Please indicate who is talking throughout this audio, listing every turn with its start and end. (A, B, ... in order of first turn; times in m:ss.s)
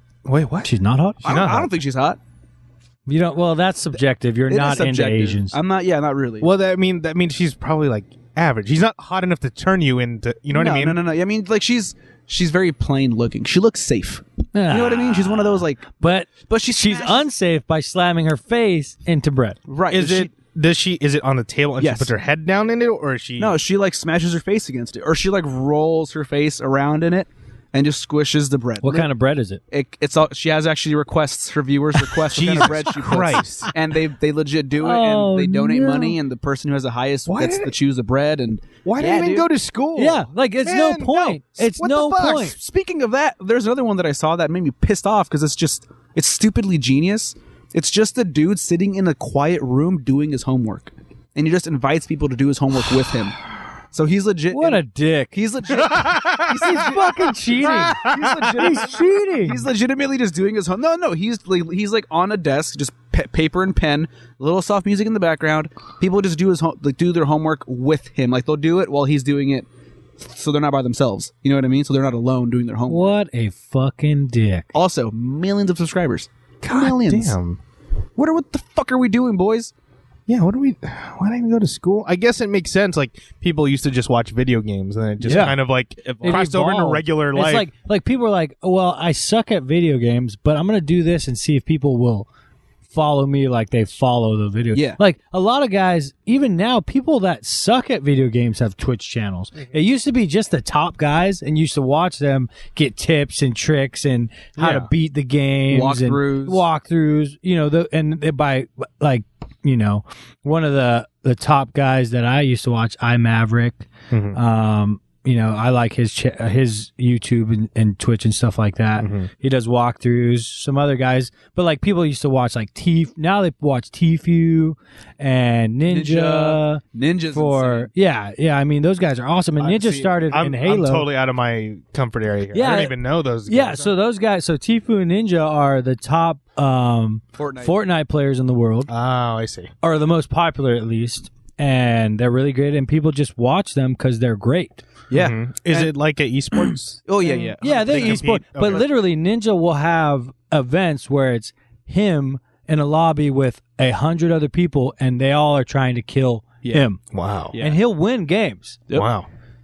0:00.2-0:00.7 A
0:00.6-0:01.3 B
0:01.2-0:02.2 C
0:01.2-0:01.7 A
0:03.1-0:05.6 B
0:04.5-0:06.5 C
0:06.4-0:11.0 A
0:10.5-0:15.9 C
0:14.5-0:19.6 B
0:16.4-0:17.3 C
0:19.7-0:20.3 C
0:19.9-0:23.6 A
0:21.8-0:22.1 C
0:23.4-0:29.1 C
0:28.8-0:29.6 B
0:29.7-0:39.5 C
0:32.3-0:33.7 A
0:34.8-0:36.2 B
0:37.3-0:37.7 A
0:38.8-0:42.5 A
0:40.0-0:42.5 B
0:42.3-0:53.3 C
0:53.9-1:09.7 C
0:54.5-0:55.4 B
0:55.8-0:56.8 A
0:55.9-0:59.6 B
0:57.6-0:58.5 A
1:10.2-1:13.2 C
1:12.9-1:14.7 B
1:14.7-1:17.4 C
1:16.6-1:17.6 A
1:18.2-1:19.7 C
1:20.3-1:27.7 A
1:25.2-1:25.6 B
1:26.0-1:26.5 C
1:26.2-1:32.3 B
1:32.9-2:06.8 B
1:34.7-1:35.0 C
1:44.6-1:44.9 A
1:45.7-1:46.6 C
1:54.1-1:54.4 A
1:59.0-1:59.3 A
2:05.9-2:07.9 C
2:07.3-2:11.1 B
2:09.6-2:13.9 A
2:12.5-2:18.9 B
2:17.4-2:17.8 C
2:18.9-2:19.7 A
2:19.8-2:24.8 B
2:25.1-2:25.9 C
2:25.1-2:27.1 A
2:26.6-2:28.2 C
2:27.2-2:37.0 B
2:27.6-2:28.8 A
2:37.1-2:37.6 A
2:37.5-2:37.8 C
2:37.6-2:38.8 B
2:38.9-2:39.3 A